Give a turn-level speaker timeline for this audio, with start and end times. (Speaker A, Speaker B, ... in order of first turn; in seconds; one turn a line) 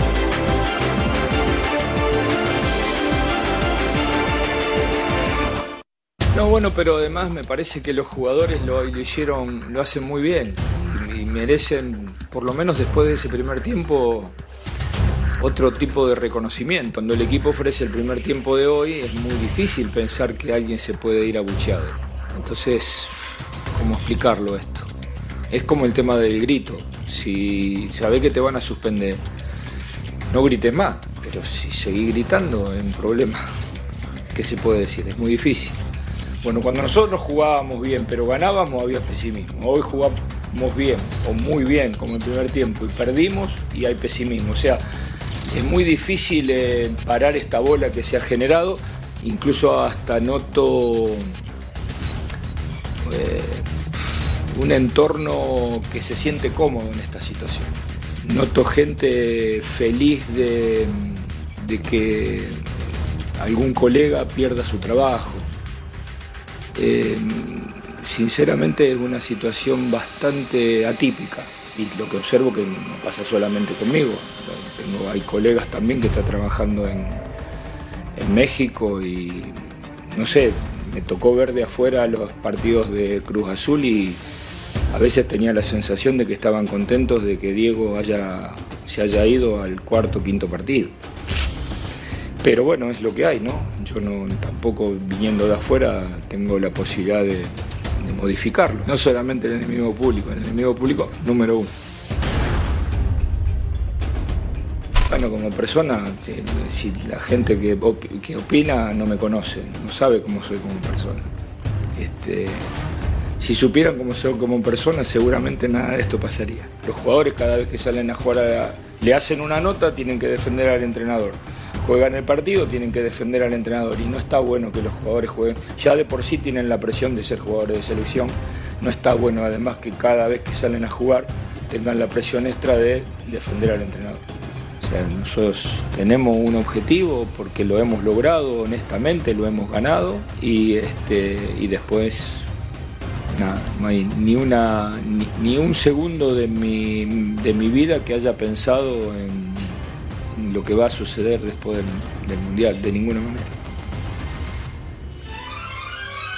Speaker A: 6.3-14.3
Speaker A: 15.4-23.2
Speaker A: 23.7-24.9
Speaker A: 25.5-29.2
Speaker A: 30.3-33.4
Speaker A: 34.3-35.8
Speaker A: 36.4-44.8
Speaker A: 45.5-51.3
Speaker A: 53.0-53.7
Speaker A: 54.5-57.7
Speaker A: 58.2-62.7
Speaker A: 63.4-65.5
Speaker A: 66.7-77.2
Speaker A: 78.1-84.2
Speaker A: 84.9-90.9
Speaker A: 92.4-101.7
Speaker A: 105.0-111.3
Speaker A: 112.0-112.7
Speaker A: 113.4-134.2
Speaker A: 134.8-142.5
Speaker A: 143.3-149.8
Speaker A: 150.3-153.5